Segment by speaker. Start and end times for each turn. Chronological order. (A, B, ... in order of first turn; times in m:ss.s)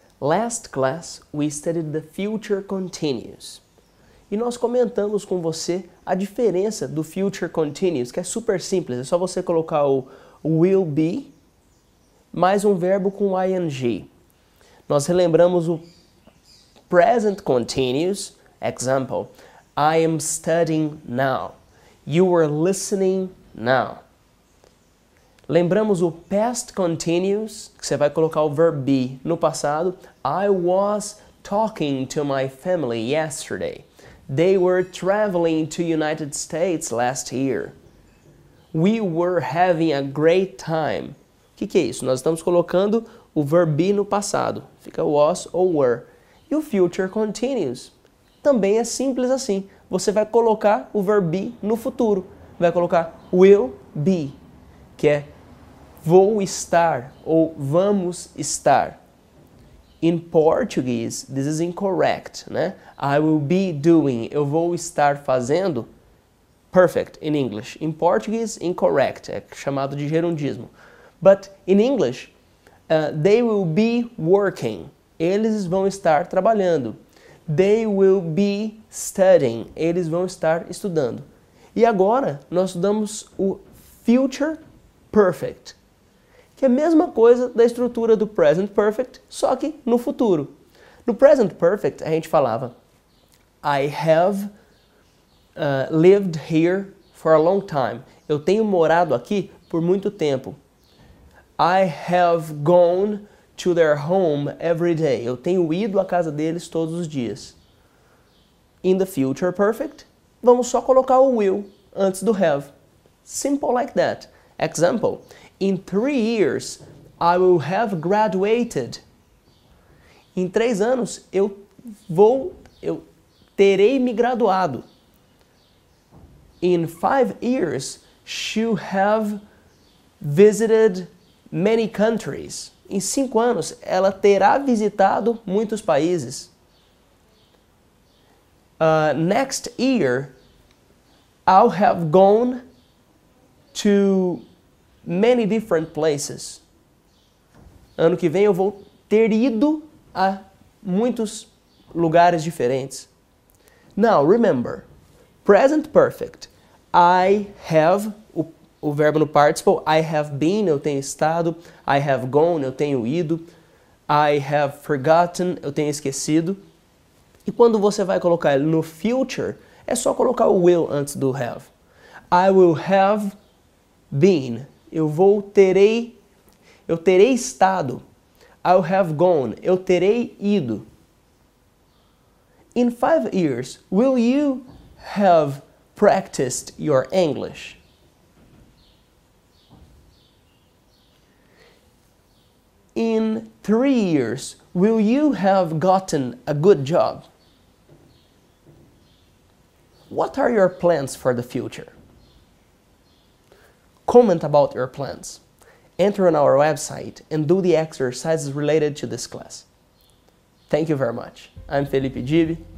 0:00.2-0:03.6 A
0:04.3-0:11.3 A
0:12.3-0:14.1 A
0:14.9-0:15.8 A
0:16.9-0:24.0 A
0:25.5-0:37.8 A
0:38.7-0:54.4 A
0:55.0-0:55.3 A
0:56.0-0:59.0 A
1:00.0-1:05.9 A
1:06.7-1:12.3 A
1:12.9-1:24.6 A
1:25.1-1:25.8 A
1:26.6-1:30.5 A
1:31.0-1:32.7 A
1:33.6-1:34.5 A
1:35.6-1:40.6 A
1:41.6-1:47.6 A
1:48.8-1:52.7 A
1:53.2-1:59.0 A
2:00.3-2:03.0 A
2:03.6-2:04.9 A
2:06.6-2:09.4 A
2:10.2-2:16.5 A
2:18.8-2:20.3 A
2:21.5-2:22.6 A
2:23.7-2:24.4 A
2:25.0-2:26.6 A
2:28.0-2:33.1 A
2:34.0-2:34.9 A
2:35.4-2:43.5 A
2:44.1-2:46.6 A
2:47.4-2:51.7 A
2:52.3-2:53.4 A
2:54.1-2:56.2 A
2:56.9-2:58.0 A
2:58.6-3:00.9 A
3:02.7-3:07.8 A
3:12.9-3:17.3 A
3:20.1-3:21.9 A
3:24.0-3:25.4 A
3:26.0-3:29.7 A
3:30.7-3:32.6 A